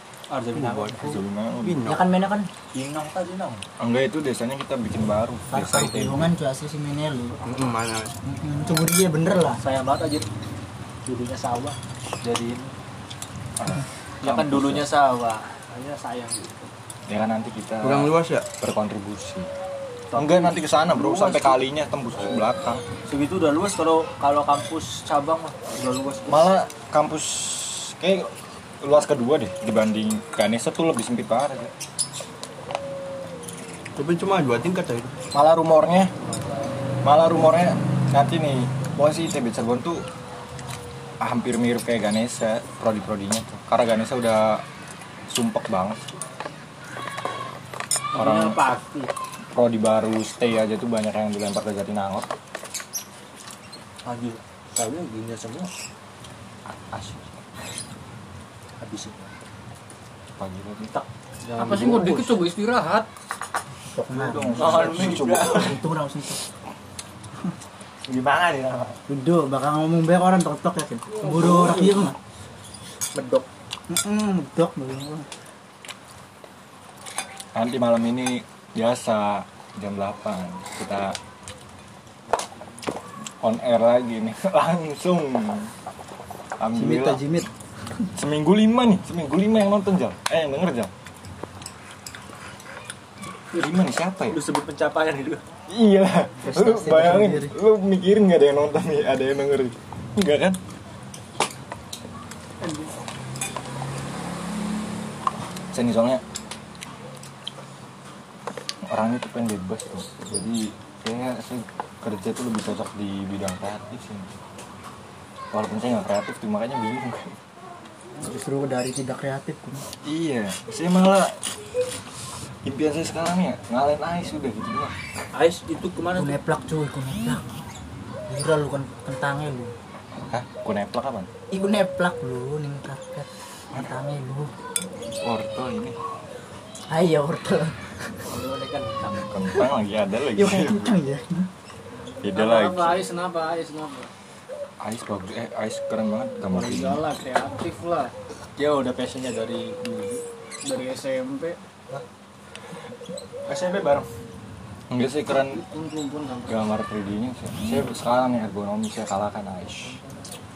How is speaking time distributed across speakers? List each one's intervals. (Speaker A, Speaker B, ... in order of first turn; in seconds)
Speaker A: 0.3-1.2, 2.7-3.6, 9.6-10.3, 11.1-12.7, 14.2-16.7, 20.1-21.6, 23.1-26.5, 48.1-49.1, 54.0-55.7, 58.8-59.3, 60.9-62.4, 64.5-65.8, 68.1-69.0, 71.6-71.9, 73.1-73.5, 94.3-95.4, 125.3-126.4, 138.3-139.3, 148.6-150.2, 153.5-154.1
Speaker B: 0.5-1.1, 1.6-2.0, 7.4-8.1, 17.8-18.5, 34.0-35.1
Speaker C: 1.0-1.8, 3.8-6.3, 13.6-14.9, 17.1-19.5, 20.1-22.8, 26.3-31.7, 35.3-36.1, 37.0-40.0, 41.2-44.6, 45.3-46.0, 48.1-48.6, 49.5-52.3, 56.7-57.4, 60.4-61.0, 64.1-65.8, 77.5-81.2, 83.4-85.7, 86.6-87.2, 88.2-90.9, 93.5-94.4, 95.7-100.6, 105.7-106.2, 108.9-114.3, 115.5-117.4, 120.0-121.4, 122.6-125.0, 130.3-131.3, 135.2-136.0, 139.2-141.0, 142.2-143.1, 144.8-147.0, 154.9-155.6, 156.5-160.0
Speaker D: 1.9-2.5, 5.5-7.4, 8.2-9.6, 63.9-66.4, 69.1-72.2, 73.9-75.3, 86.8-87.5, 96.4-97.5, 118.2-119.8, 126.1-127.5, 128.3-129.7, 131.5-134.5, 136.9-138.0, 140.3-141.5
Speaker E: 61.6-63.1, 71.2-71.9, 102.6-102.9, 142.3-144.1, 146.5-148.1, 150.6-151.6, 155.3-156.6